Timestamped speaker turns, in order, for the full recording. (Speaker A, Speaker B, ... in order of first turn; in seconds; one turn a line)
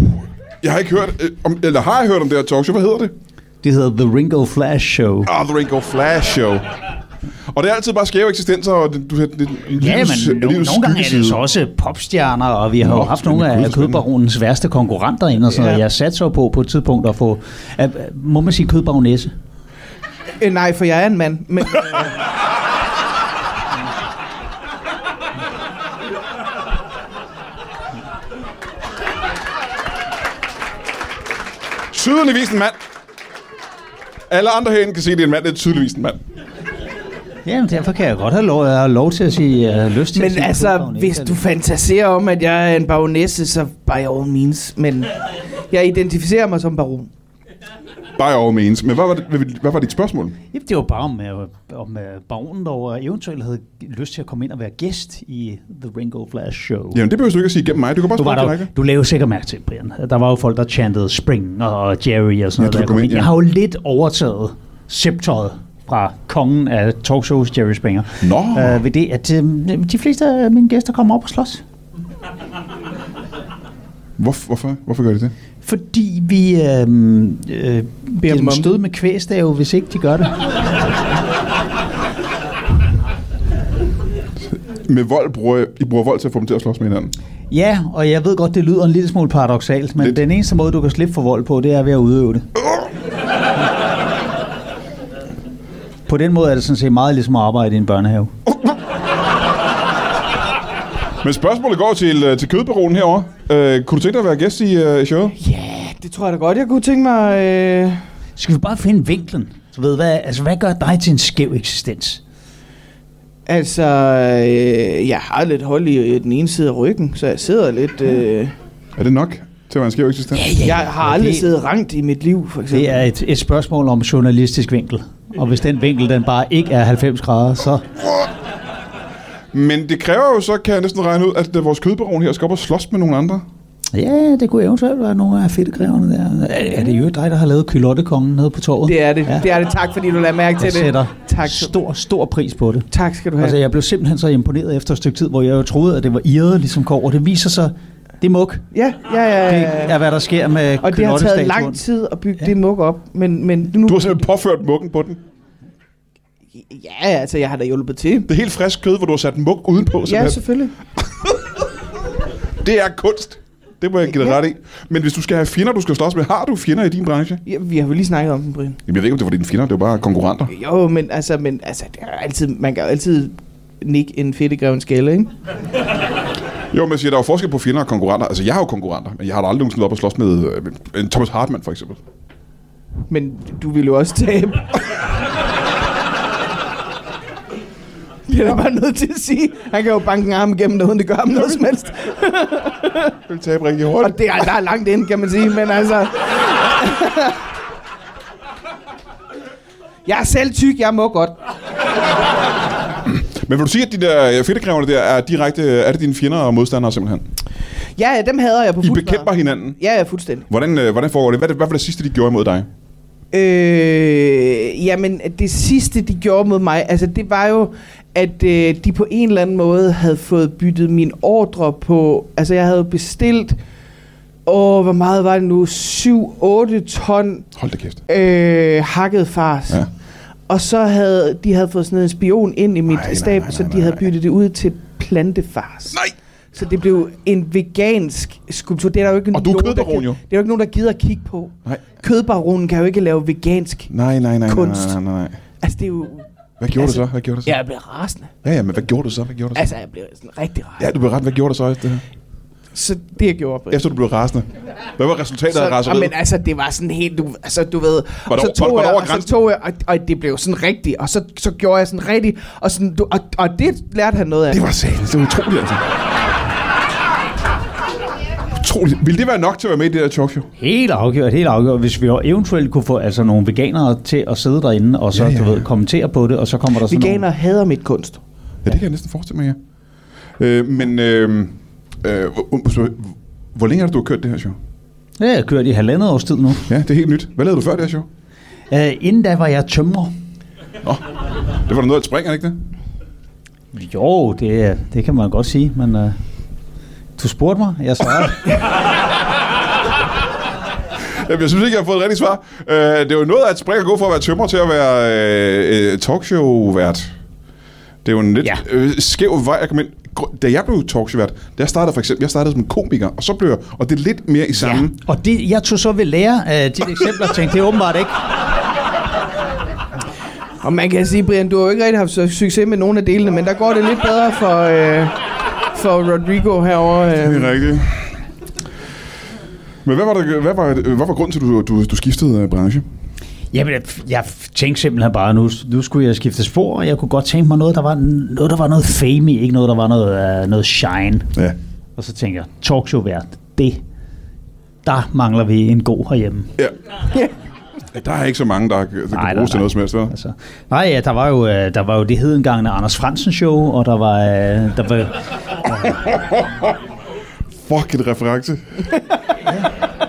Speaker A: 0.6-3.1
Speaker B: 3.6-5.3
Speaker A: 5.2-6.7
Speaker A: 7.5-11.4
Speaker B: 9.7-19.3
Speaker A: 12.8-14.0
Speaker C: 15.5-15.8
Speaker C: 20.4-22.1
Speaker A: 31.9-32.8
Speaker A: 34.3-36.2
Speaker B: 37.4-41.4
Speaker C: 40.1-45.1
Speaker C: 45.7-47.1
Speaker A: 48.2-50.4
Speaker B: 50.5-57.0
Speaker A: 56.9-58.7
Speaker B: 58.1-71.6
Speaker A: 62.6-63.3
Speaker A: 68.2-68.8
Speaker A: 74.2-75.3
Speaker B: 75.6-80.4
Speaker C: 78.2-78.7
Speaker A: 84.5-87.1
Speaker B: 87.5-92.5
Speaker B: 96.1-98.3
Speaker A: 101.2-105.3
Speaker C: 105.4-108.0
Speaker B: 108.4-112.2
Speaker C: 113.5-118.5
Speaker A: 119.0-120.5
Speaker B: 120.4-121.5
Speaker C: 120.4-123.0
Speaker B: 122.7-127.8
Speaker A: 129.5-133.4
Speaker B: 133.9-139.4
Speaker C: 138.8-141.7
Speaker B: 140.6-142.9
Speaker C: 142.9-143.6
Speaker B: 143.4-148.7
Speaker C: 148.7-150.0
Speaker B: 149.4-151.8
Speaker C: 150.8-154.1
Speaker A: 153.8-155.2
Speaker C: 156.5-158.3
Speaker A: 158.3-160.4
Speaker C: 160.1-160.7
Speaker A: 162.6-167.4
Speaker C: 167.4-168.8
Speaker A: 168.8-170.5
Speaker C: 170.5-175.3
Speaker A: 176.7-182.0
Speaker C: 183.1-185.0
Speaker C: 188.3-193.2
Speaker A: 193.3-194.2
Speaker C: 194.0-197.4
Speaker C: 200.1-201.4
Speaker A: 203.0-207.3
Speaker C: 208.0-210.4
Speaker A: 208.8-209.8
Speaker A: 210.5-212.7
Speaker C: 213.3-223.6
Speaker C: 224.4-227.5
Speaker A: 227.6-228.0
Speaker C: 228.1-229.9
Speaker C: 230.5-236.0
Speaker A: 232.9-234.1
Speaker C: 236.5-243.9
Speaker A: 239.3-240.2
Speaker A: 243.9-245.4
Speaker C: 244.5-245.0
Speaker C: 245.6-248.3
Speaker A: 246.6-247.6
Speaker A: 248.4-249.7
Speaker C: 249.5-250.9
Speaker A: 250.8-252.0
Speaker C: 252.7-253.8
Speaker A: 253.7-256.1
Speaker C: 255.5-264.6
Speaker A: 258.3-259.3
Speaker A: 264.5-265.8
Speaker A: 268.6-270.5
Speaker B: 270.6-277.2
Speaker A: 275.1-275.6
Speaker C: 276.9-278.2
Speaker A: 278.6-279.6
Speaker A: 280.4-284.6
Speaker B: 285.2-286.7
Speaker A: 286.7-288.1
Speaker B: 288.7-290.1
Speaker A: 291.6-292.6
Speaker B: 293.7-296.2
Speaker B: 297.2-298.5
Speaker A: 301.0-307.1
Speaker A: 308.0-315.0
Speaker B: 314.5-318.1
Speaker C: 320.6-325.2
Speaker C: 325.7-327.6
Speaker A: 327.2-328.2
Speaker A: 329.8-332.8
Speaker B: 333.5-341.4
Speaker B: 342.0-343.8
Speaker B: 344.8-346.6
Speaker A: 347.9-350.1
Speaker B: 349.1-356.0
Speaker A: 356.2-356.7
Speaker A: 357.6-358.9